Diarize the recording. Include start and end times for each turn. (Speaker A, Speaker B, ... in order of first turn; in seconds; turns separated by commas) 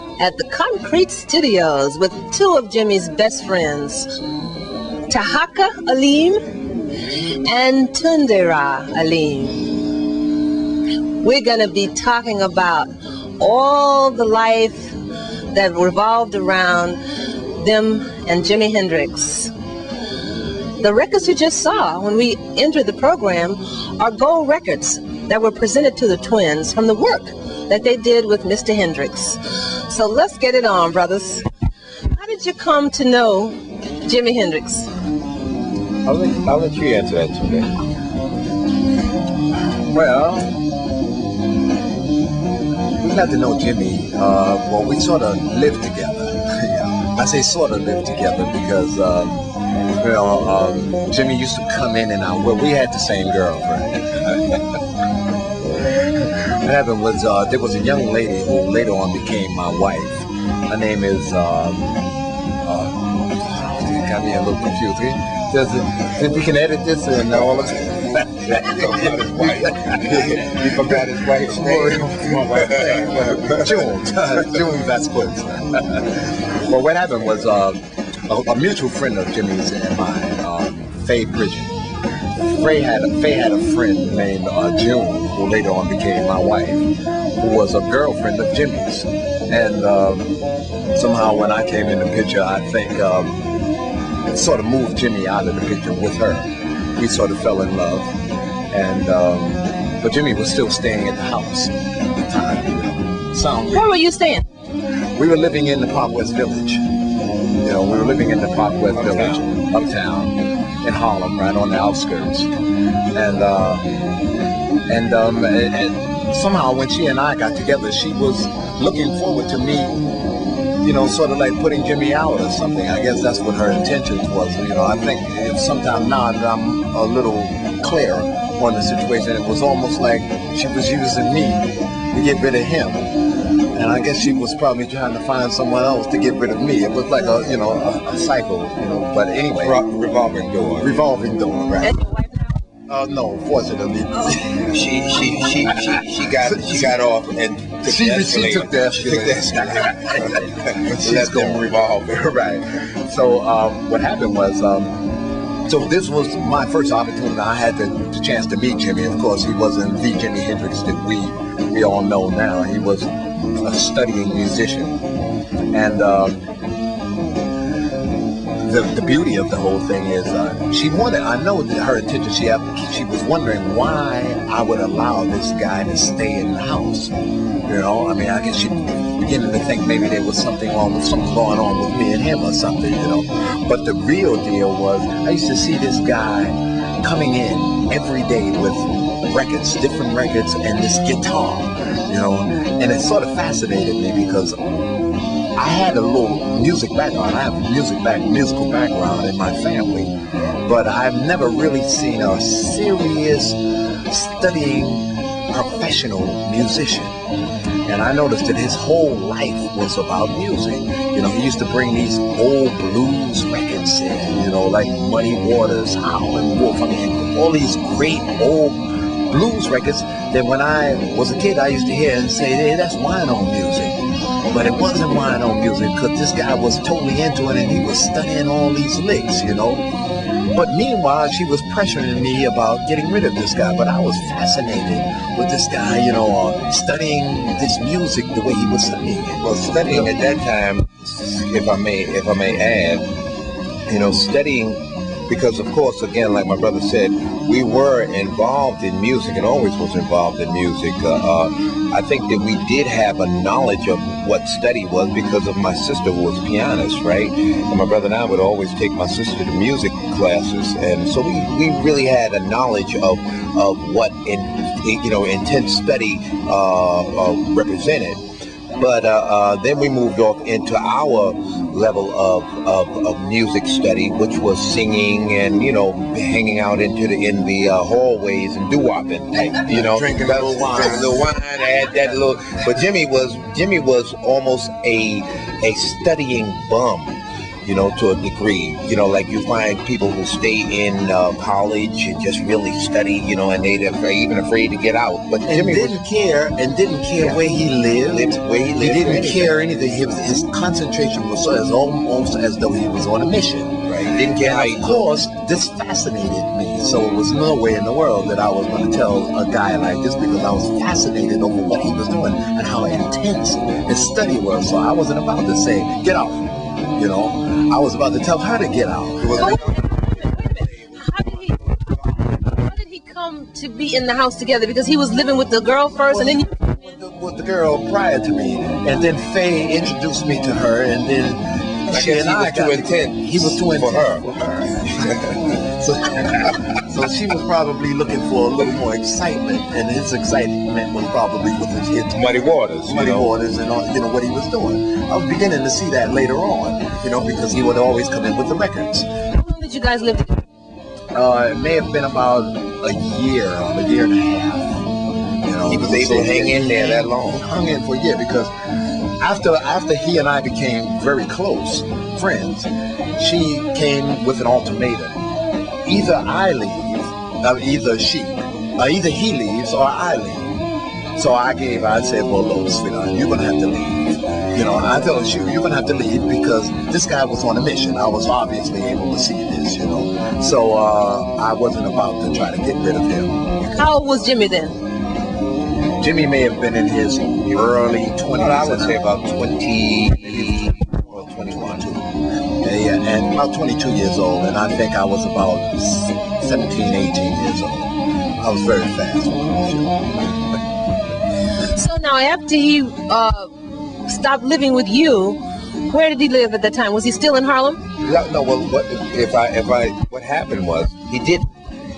Speaker A: 0.2-4.1, Speaker A: 5.1-6.5, Speaker A: 7.5-9.7, Speaker A: 11.2-15.0, Speaker A: 15.5-17.0, Speaker A: 17.5-19.5, Speaker A: 20.8-31.5, Speaker A: 32.1-34.9, Speaker B: 36.0-37.7, Speaker C: 39.7-40.6, Speaker C: 43.0-54.4, Speaker C: 55.9-62.0, Speaker C: 62.6-81.8, Speaker B: 67.2-74.0, Speaker C: 82.4-90.4, Speaker C: 91.0-93.4, Speaker C: 94.3-98.2, Speaker C: 98.7-103.9, Speaker A: 103.7-104.5, Speaker C: 105.2-106.9, Speaker C: 107.6-112.5, Speaker B: 108.9-109.4, Speaker C: 113.1-113.9, Speaker C: 114.9-120.1, Speaker C: 120.8-133.1, Speaker C: 133.7-139.8, Speaker B: 139.5-141.0, Speaker C: 140.8-142.0, Speaker A: 141.8-142.6, Speaker C: 142.9-147.0, Speaker A: 144.1-144.4, Speaker B: 144.4-152.0, Speaker C: 147.8-155.1, Speaker C: 155.7-165.0, Speaker C: 165.7-166.4, Speaker C: 168.6-177.2, Speaker C: 177.7-194.6, Speaker C: 195.6-207.2, Speaker C: 207.9-229.9, Speaker C: 230.5-240.2, Speaker B: 239.4-243.1, Speaker B: 243.9-268.2, Speaker B: 268.8-295.9, Speaker C: 279.6-281.3, Speaker C: 295.4-319.6, Speaker B: 298.1-299.7, Speaker B: 303.9-305.1, Speaker B: 319.2-322.2, Speaker A: 319.4-326.5, Speaker C: 326.1-334.9, Speaker B: 331.9-335.5, Speaker C: 335.5-342.3, Speaker B: 342.1-343.3, Speaker C: 342.9-349.1, Speaker A: 349.3-350.4, Speaker C: 351.1-354.9, Speaker C: 355.4-358.5, Speaker B: 355.7-357.4, Speaker C: 359.2-365.2, Speaker C: 365.9-370.6, Speaker C: 371.1-383.4, Speaker A: 383.6-384.8, Speaker C: 386.0-389.0, Speaker B: 388.3-392.0, Speaker C: 390.2-400.1, Speaker A: 401.6-403.5, Speaker A: 404.1-407.8, Speaker B: 408.0-411.5